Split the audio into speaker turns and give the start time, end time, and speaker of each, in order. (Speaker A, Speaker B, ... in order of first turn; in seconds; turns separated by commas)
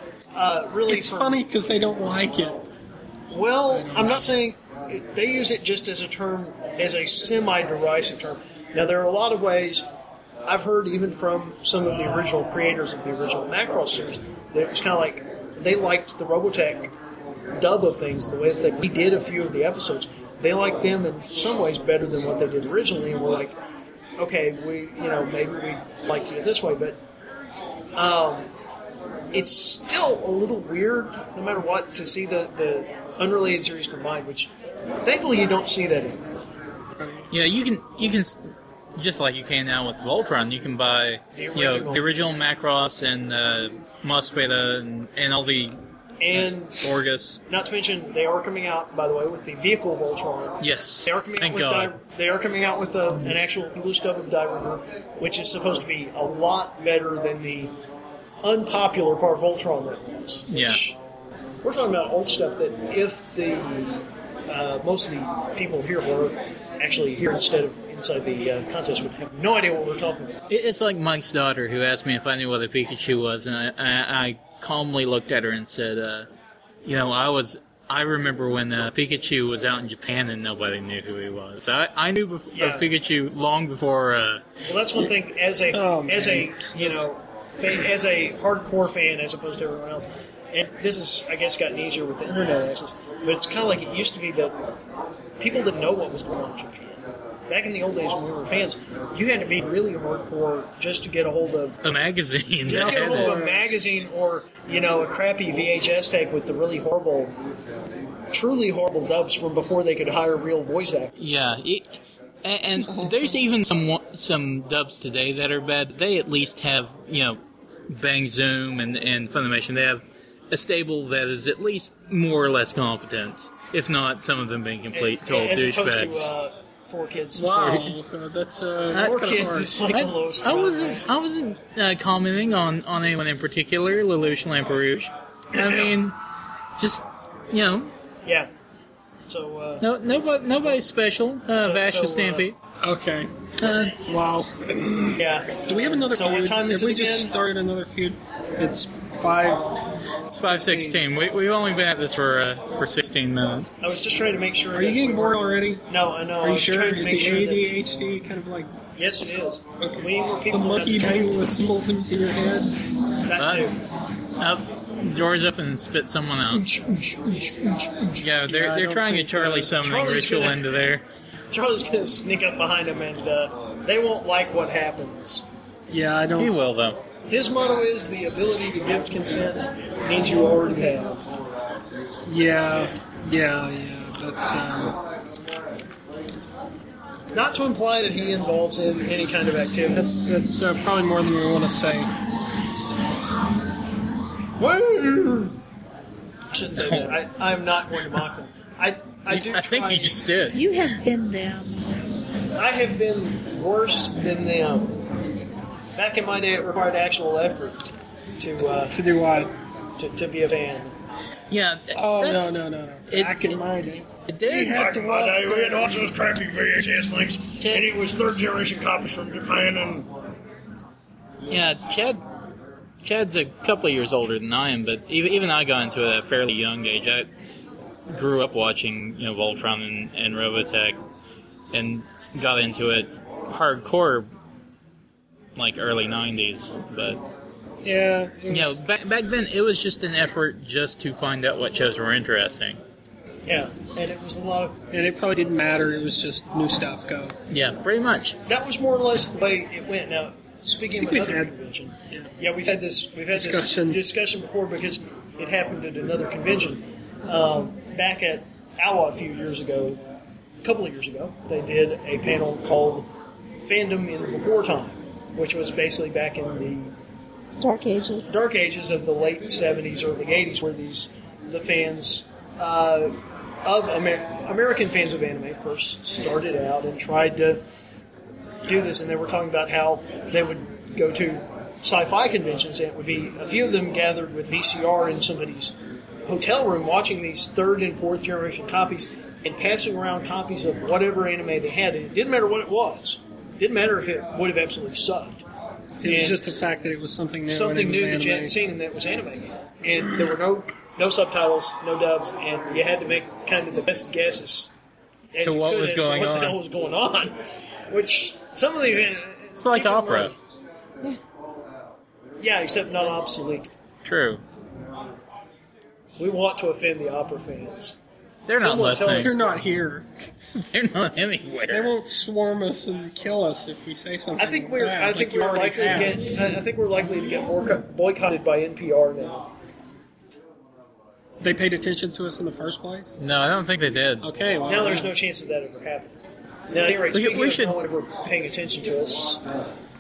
Speaker A: 0.3-1.4, Speaker B: 0.9-2.7, Speaker A: 3.3-9.9, Speaker B: 3.7-4.2, Speaker A: 10.5-16.9, Speaker A: 17.6-23.6, Speaker A: 24.2-27.0, Speaker A: 27.9-28.5, Speaker A: 29.3-34.5, Speaker A: 35.0-36.3, Speaker B: 37.0-37.3, Speaker C: 37.3-38.4, Speaker C: 39.0-45.8, Speaker A: 41.3-42.1, Speaker A: 46.2-46.9, Speaker C: 46.3-47.4, Speaker A: 47.5-57.7, Speaker C: 50.6-52.0, Speaker A: 58.4-61.0, Speaker C: 60.5-60.8, Speaker A: 61.6-70.4, Speaker C: 70.5-76.3, Speaker C: 76.8-84.4, Speaker A: 82.5-82.9, Speaker A: 84.7-94.6, Speaker B: 85.7-87.0, Speaker A: 95.4-101.8, Speaker C: 101.8-103.3, Speaker A: 102.6-107.4, Speaker B: 102.7-103.7, Speaker A: 108.3-111.2, Speaker C: 111.2-126.3, Speaker A: 124.9-127.7, Speaker B: 127.4-129.8, Speaker C: 127.5-127.9, Speaker A: 128.9-131.0, Speaker C: 129.9-136.2, Speaker A: 135.5-135.9, Speaker C: 136.8-137.9, Speaker A: 138.2-138.5, Speaker A: 139.3-139.9, Speaker C: 139.8-142.6, Speaker A: 141.6-142.5, Speaker B: 142.8-149.8, Speaker A: 145.2-147.3, Speaker C: 150.3-153.7, Speaker B: 150.5-151.0, Speaker A: 153.8-157.8, Speaker B: 154.7-155.8, Speaker B: 156.4-158.7, Speaker A: 159.0-161.3, Speaker B: 159.8-162.8, Speaker A: 163.2-163.8, Speaker C: 163.4-163.7, Speaker C: 164.4-166.7, Speaker A: 166.5-168.3, Speaker C: 168.2-171.1, Speaker B: 168.5-169.7, Speaker A: 169.8-170.7, Speaker A: 171.5-175.4, Speaker B: 175.9-176.6, Speaker C: 176.4-177.0, Speaker A: 177.3-181.2, Speaker B: 182.3-185.0, Speaker A: 187.3-190.0, Speaker B: 190.0-192.1, Speaker A: 194.6-195.6, Speaker A: 196.5-200.2, Speaker C: 196.8-197.1, Speaker C: 199.3-200.6, Speaker D: 200.5-201.8, Speaker A: 202.6-205.0, Speaker A: 205.9-209.0, Speaker B: 208.9-209.5, Speaker A: 210.0-210.9, Speaker C: 211.5-212.5, Speaker B: 211.9-216.1, Speaker C: 213.1-213.6, Speaker C: 214.3-214.9, Speaker E: 214.9-215.3, Speaker A: 215.3-216.2, Speaker E: 216.2-217.3, Speaker A: 216.9-219.2, Speaker E: 219.2-220.1, Speaker C: 221.5-222.2, Speaker C: 223.0-227.3, Speaker C: 228.1-231.0, Speaker C: 231.7-234.3, Speaker C: 235.6-237.2, Speaker B: 237.8-238.8, Speaker C: 238.5-242.8, Speaker A: 243.5-244.8, Speaker B: 244.9-247.3, Speaker C: 247.5-248.4, Speaker A: 248.5-260.0, Speaker B: 251.0-251.5, Speaker B: 253.3-254.0, Speaker A: 260.6-263.1, Speaker A: 263.6-266.9, Speaker D: 267.6-268.3, Speaker A: 268.3-277.6, Speaker A: 278.6-295.4, Speaker B: 296.0-298.6, Speaker A: 296.0-296.5, Speaker A: 297.5-304.7, Speaker A: 305.3-310.4, Speaker C: 305.4-306.6, Speaker C: 309.6-310.4, Speaker A: 312.4-313.7, Speaker C: 314.0-314.4, Speaker A: 316.2-318.0, Speaker C: 318.5-319.3, Speaker A: 318.6-319.4, Speaker B: 319.1-320.1, Speaker C: 320.7-321.9, Speaker B: 321.7-326.3, Speaker A: 324.4-329.5, Speaker B: 331.4-333.2, Speaker C: 333.2-334.3, Speaker B: 334.2-335.1, Speaker A: 334.7-336.2, Speaker A: 336.7-339.4, Speaker C: 337.1-337.8